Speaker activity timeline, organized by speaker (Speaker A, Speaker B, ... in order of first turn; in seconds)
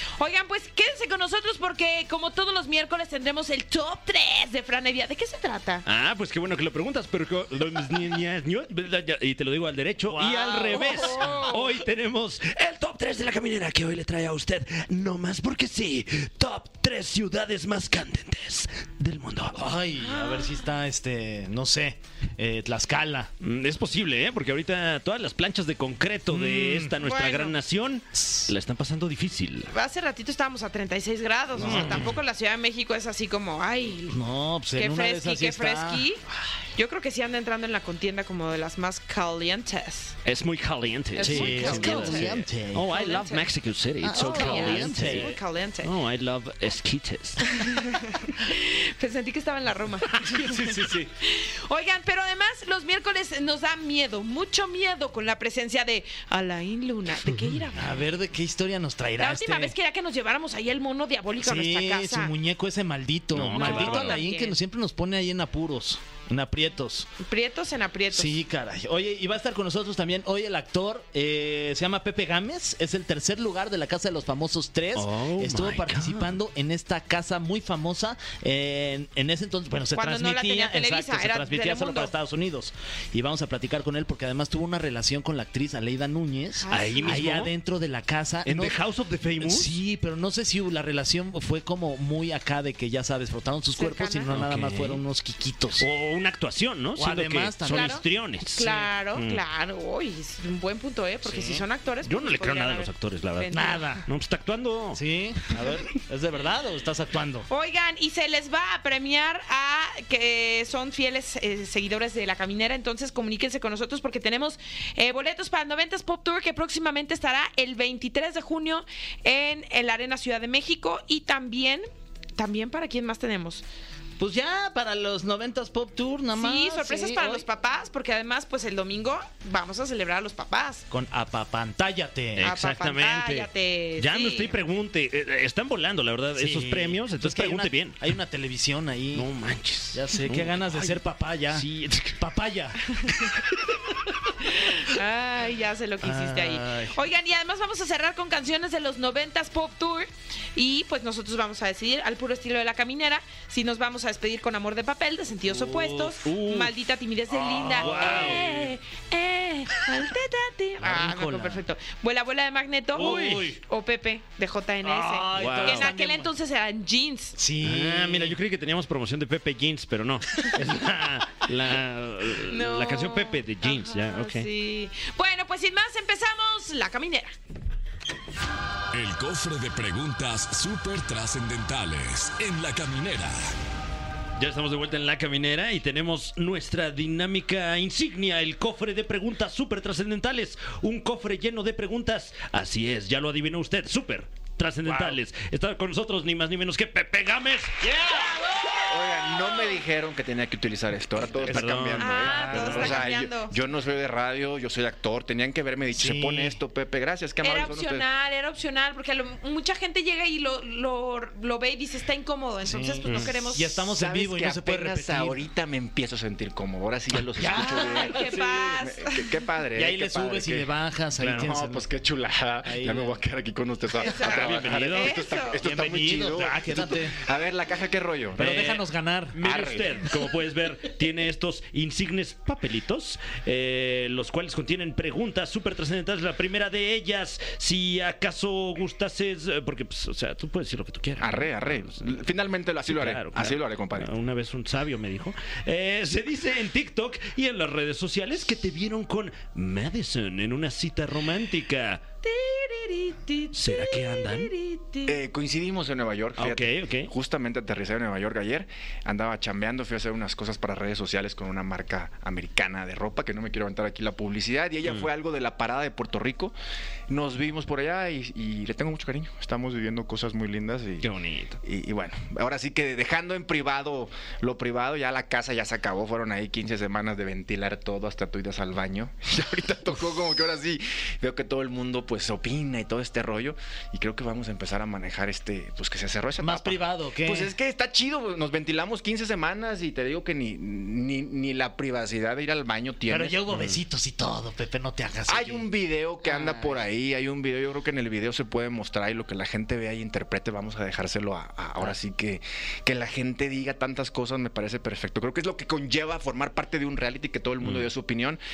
Speaker A: 0.2-5.8, 10.3-11.7, 20.0-20.6, 27.0-27.6, 29.7-34.2, 34.7-36.2, 36.8-40.1, 41.1-42.3, 42.9-43.5, 44.1-45.9, 47.4-58.0, 59.2-62.3, 63.5-64.6, 67.2-68.4, 79.9-82.1, 86.6-87.3, 93.8-94.3, 97.7-103.9, 107.5-121.8, 122.3-123.6, 126.3-130.8, 132.4-134.6, 144.4-167.4, 172.5-177.3, 198.1-198.9, 199.4-199.8, 202.0-203.6, 207.4-213.8, 217.5-219.3, 223.9-225.6, 252.2-255.2
Speaker B: 5.8-19.7, 23.4-29.7, 31.6-32.1, 40.2-47.6, 63.3-64.2, 74.9-76.3, 86.7-87.5, 88.4-89.7, 94.3-95.0, 95.8-99.4, 102.0-105.0, 132.3-138.0, 139.1-142.3, 143.1-143.6, 156.2-156.7, 157.8-158.6, 163.0-163.5, 165.3-165.9, 167.6-174.5, 184.4-197.9, 201.3-203.1, 213.1-213.3, 221.2-221.5, 224.1-225.2, 228.4-242.1, 242.9-252.0, 253.5-254.5, 256.4-257.1, 271.0-271.6, 307.6-307.9
Speaker C: 10.1-11.3, 19.5-23.3, 26.3-26.9, 28.1-28.5, 31.6-32.1, 34.1-36.5, 41.2-42.9, 44.0-45.3, 50.3-51.1, 57.7-59.7, 61.4-67.1, 68.1-88.8, 89.4-95.8, 97.0-97.9, 101.2-101.6, 103.5-104.0, 104.9-107.5, 124.2-127.4, 130.9-132.5, 136.3-139.3, 139.9-141.7, 142.2-142.8, 146.0-147.0, 155.5-156.2, 157.3-158.6, 160.8-161.6, 162.9-163.6, 164.8-166.3, 167.3-168.3, 194.8-195.2, 197.8-198.3, 202.2-202.9, 205.9-206.6, 212.7-215.4, 217.3-218.3, 219.7-221.8, 222.6-223.2, 225.6-227.2, 228.3-229.4, 286.4-287.5, 293.1-295.6, 296.2-296.8
Speaker D: 178.9-183.5
Speaker E: 198.8-208.0, 213.8-220.7, 221.2-228.6, 229.4-230.0, 241.2-244.1, 255.1-266.5, 267.1-271.1, 271.6-293.4, 295.3-308.4